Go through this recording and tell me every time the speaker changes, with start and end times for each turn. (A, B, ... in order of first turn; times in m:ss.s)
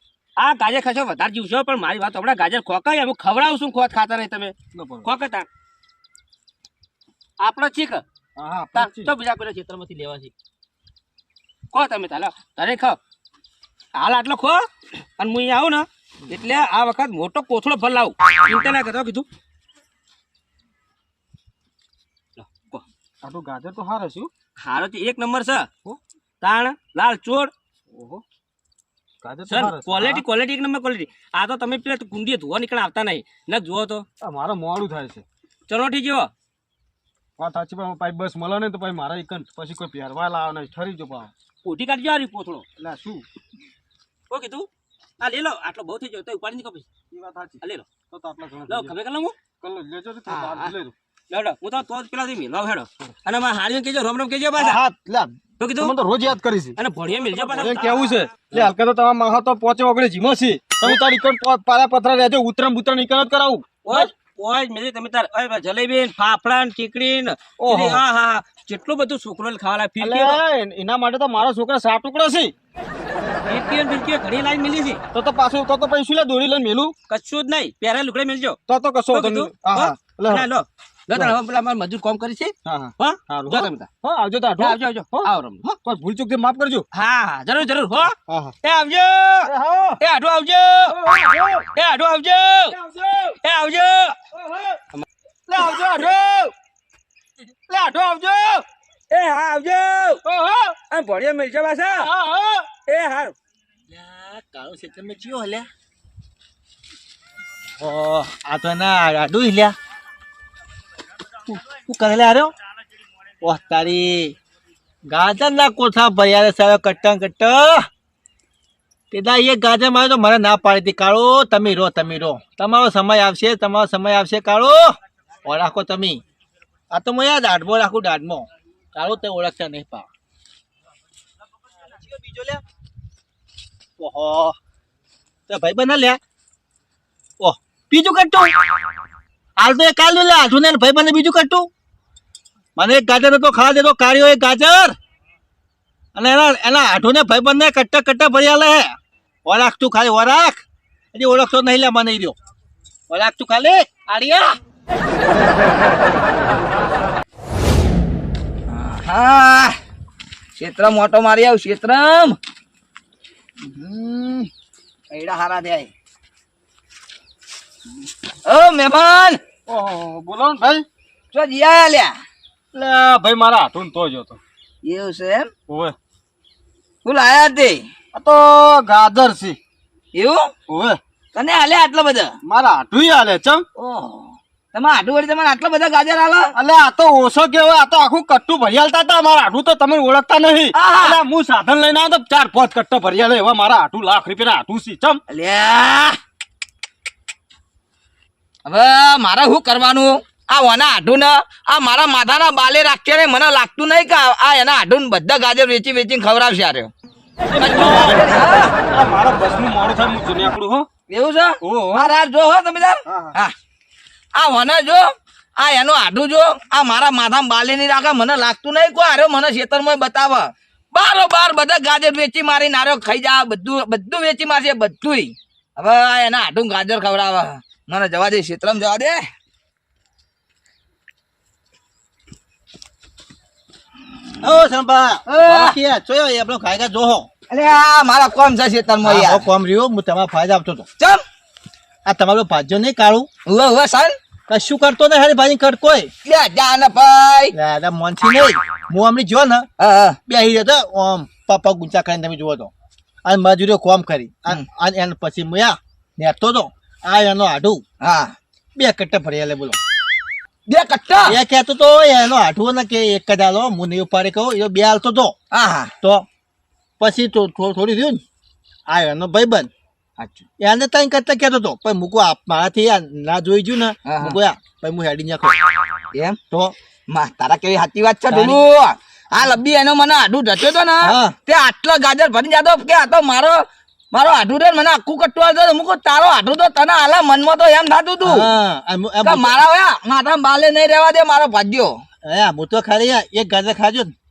0:00.4-0:05.5 A
0:04.7-0:05.1 B
0:07.4-0:08.0 A
0:08.4-0:09.1 B
0:08.7-0:10.3 A
0:11.7-0:13.0 A
0:13.9-0:19.2 A
0:22.4-0:22.8 A
0:23.2-0:24.3 B
0:24.6-0:25.7 A
0:26.4-0:27.5 A
0:27.9-0:28.2 B
0:29.2-0:30.2 B
0:29.5-0:34.0 A
0:34.2-0:35.2 B
0:35.7-0:36.3 A
0:37.4-0:41.3 B
0:41.6-0:42.6 A
0:42.8-0:43.2 B
0:44.3-0:44.7 A
0:45.2-0:46.9 A
0:47.1-0:48.9 B
0:48.7-0:49.4 A
0:49.6-0:50.9 B
0:50.3-0:50.7 A
0:51.3-0:54.8 A
0:54.6-1:04.1 B
0:55.6-0:55.9 A
0:56.8-0:58.7 A
1:03.8-1:10.4 A
1:07.6-1:08.0 B
1:10.0-1:12.5 B
1:13.4-1:15.0 A
1:15.1-1:16.9 B
1:17.1-1:18.6 A
1:18.7-1:20.5 B
1:19.1-1:23.9 A
1:22.6-1:25.3 B
1:24.6-1:25.8 A
1:25.8-1:26.8 B
1:26.9-1:32.8 A
1:28.3-1:28.5 B
1:29.4-1:30.0 B
1:30.9-1:31.7 B
1:32.7-1:33.4 B
1:33.4-1:34.3 A
1:34.4-1:34.7 B
1:35.5-1:36.5 B
1:35.6-1:36.1 A
1:37.7-1:38.6 B
1:39.1-1:40.2 A
1:40.2-1:40.8 B
1:40.9-1:42.1 A
1:42.0-1:42.7 B
1:42.8-1:43.3 A
1:43.9-1:45.7 C
1:47.8-1:49.7 C
1:51.6-1:52.5 C
1:53.4-1:54.4 C
1:55.1-1:57.9 C
1:59.1-2:06.2 C
2:06.9-2:10.1 C
2:11.8-2:12.6 C
2:14.0-2:14.6 C
2:15.5-2:16.2 C
2:17.4-2:18.5 C
2:19.6-2:21.7 C
2:22.8-2:25.0 C
2:26.1-2:32.4 C
2:33.1-2:34.0 C
2:34.1-2:34.5 D
2:38.7-2:39.8 D
2:40.6-2:42.4 D
2:43.6-2:44.5 D
2:45.1-2:45.9 D
2:48.4-2:49.4 D
2:49.7-2:50.8 B
2:51.3-2:52.1 D
2:52.7-2:54.4 B
2:54.8-2:55.5 D
2:55.7-2:55.9 B
2:57.0-2:57.8 D
2:58.1-2:59.6 B
3:00.1-3:00.5 D
3:00.7-3:01.0 B
3:01.3-3:02.4 D
3:02.4-3:03.6 B
3:03.8-3:06.5 D
3:06.5-3:15.2 B
3:10.7-3:11.2 D
3:15.3-3:16.2 D
3:18.7-3:26.9 D
3:27.5-3:30.8 B
3:27.6-3:28.7 D
3:31.1-3:33.5 D
3:31.6-3:32.1 B
3:33.0-3:33.3 B
3:34.3-3:49.2 D
3:54.4-3:57.3 C
3:55.3-3:55.8 D
3:57.5-3:59.4 D
3:59.0-4:00.9 C
4:02.0-4:03.3 C
4:03.4-4:04.2 D
4:04.5-4:06.1 C
4:06.2-4:07.5 D
4:07.5-4:09.7 C
4:09.8-4:10.2 D
4:10.3-4:12.7 C
4:13.2-4:17.8 C
4:18.0-4:18.3 D
4:18.7-4:19.8 C
4:20.7-4:21.4 D
4:21.2-4:25.3 C
4:25.5-4:25.9 D
4:27.0-4:28.2 C
4:28.9-4:29.7 C
4:30.2-4:30.4 D
4:30.6-4:35.6 C
4:34.1-4:34.4 D
4:36.1-4:36.4 D
4:37.1-4:48.5 D
4:38.3-4:38.6 C
4:41.0-4:41.4 C
4:48.2-4:49.6 C
4:49.2-4:52.0 D
4:52.2-4:54.1 C